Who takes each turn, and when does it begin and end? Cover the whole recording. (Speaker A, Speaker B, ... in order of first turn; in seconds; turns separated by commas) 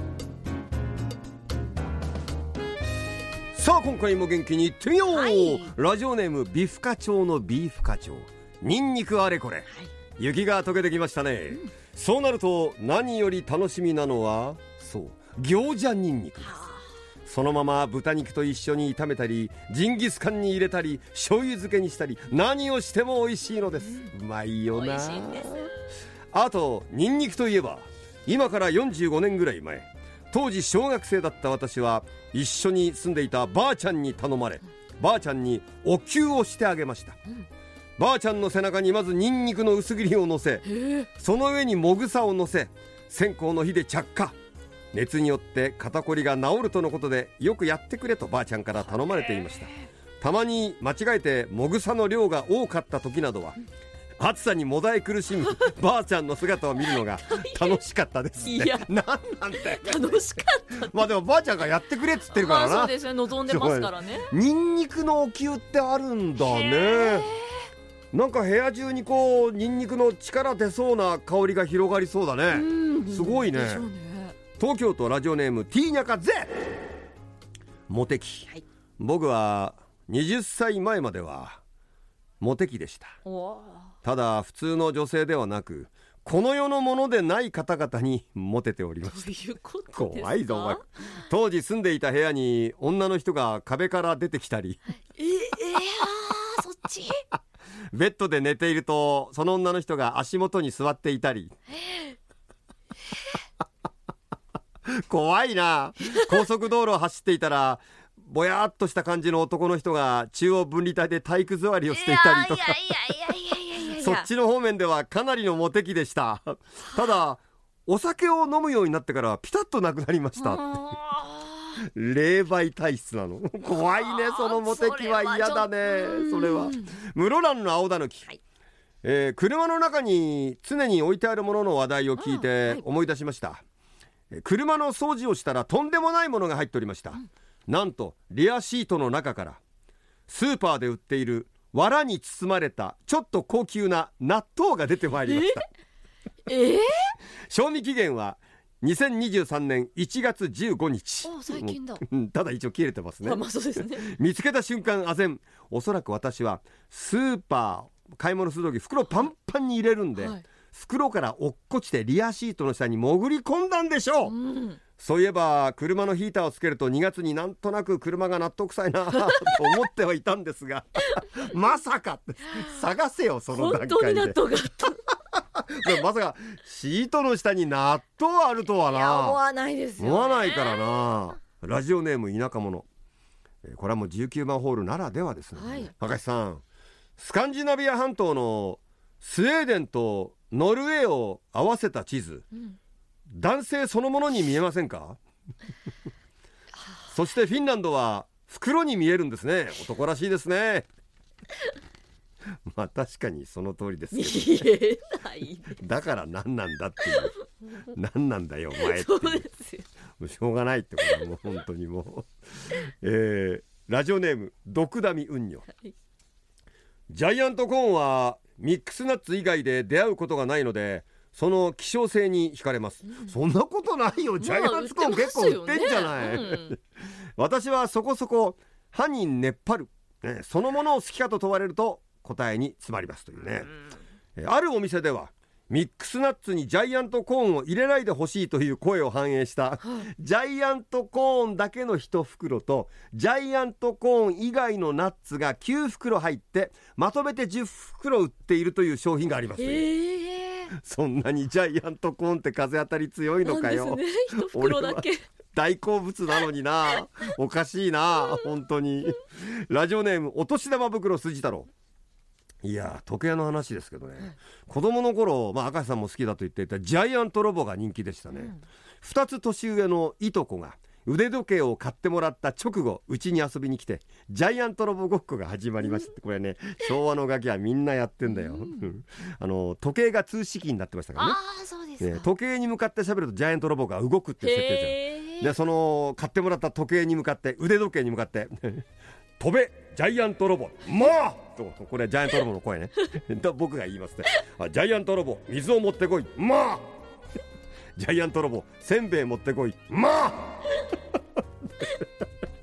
Speaker A: 3.5-16.6, Speaker B: 5.1-5.7, Speaker B: 16.5-16.8, Speaker A: 17.2-25.7, Speaker B: 24.7-25.7, Speaker A: 26.3-37.2, Speaker A: 38.0-44.4, Speaker B: 40.7-41.1, Speaker A: 44.9-49.7, Speaker B: 49.1-49.7, Speaker A: 50.2-53.6, Speaker A: 54.2-67.3, Speaker B: 57.3-57.8, Speaker B: 58.4-61.1, Speaker B: 62.3-64.3, Speaker B: 66.4-67.7, Speaker A: 68.1-73.8, Speaker B: 72.5-74.4, Speaker A: 74.5-76.5, Speaker A: 77.9-81.6, Speaker A: 82.4-83.2, Speaker B: 83.2-83.9, Speaker A: 84.0-89.3, Speaker B: 89.1-90.8, Speaker A: 89.9-94.8, Speaker B: 95.2-97.2, Speaker A: 97.9-101.5, Speaker B: 101.8-102.2, Speaker A: 104.9-113.3, Speaker B: 111.9-114.3, Speaker A: 113.9-120.9, Speaker B: 120.3-121.8, Speaker A: 121.8-128.3, Speaker B: 123.7-126.9, Speaker A: 129.0-133.6, Speaker B: 132.2-132.8, Speaker A: 134.3-139.6, Speaker A: 140.3-145.6, Speaker B: 145.2-145.6, Speaker B: 146.4-147.1, Speaker A: 147.5-164.3, Speaker B: 151.2-152.0, Speaker B: 153.2-154.1, Speaker B: 160.2-160.4, Speaker B: 164.2-164.8, Speaker A: 165.0-179.4, Speaker B: 169.1-169.7, Speaker B: 173.5-175.0, Speaker B: 178.9-181.1, Speaker A: 180.0-182.8, Speaker A: 183.6-186.6, Speaker B: 185.6-185.9, Speaker A: 187.2-192.4, Speaker A: 193.3-195.2, Speaker A: 197.1-200.9, Speaker A: 202.7-204.7, Speaker B: 204.1-205.8, Speaker A: 205.7-209.5, Speaker B: 208.7-209.9, Speaker A: 210.2-215.7, Speaker A: 217.1-226.8, Speaker B: 224.4-226.8, Speaker A: 227.4-233.7, Speaker A: 234.4-249.8, Speaker B: 249.6-250.7, Speaker A: 250.7-261.7, Speaker B: 253.4-255.2, Speaker A: 262.6-281.4, Speaker B: 268.3-268.6, Speaker B: 278.3-278.9, Speaker B: 281.1-282.3, Speaker A: 282.0-288.8, Speaker B: 284.4-285.5, Speaker A: 289.4-296.9, Speaker A: 298.0-300.6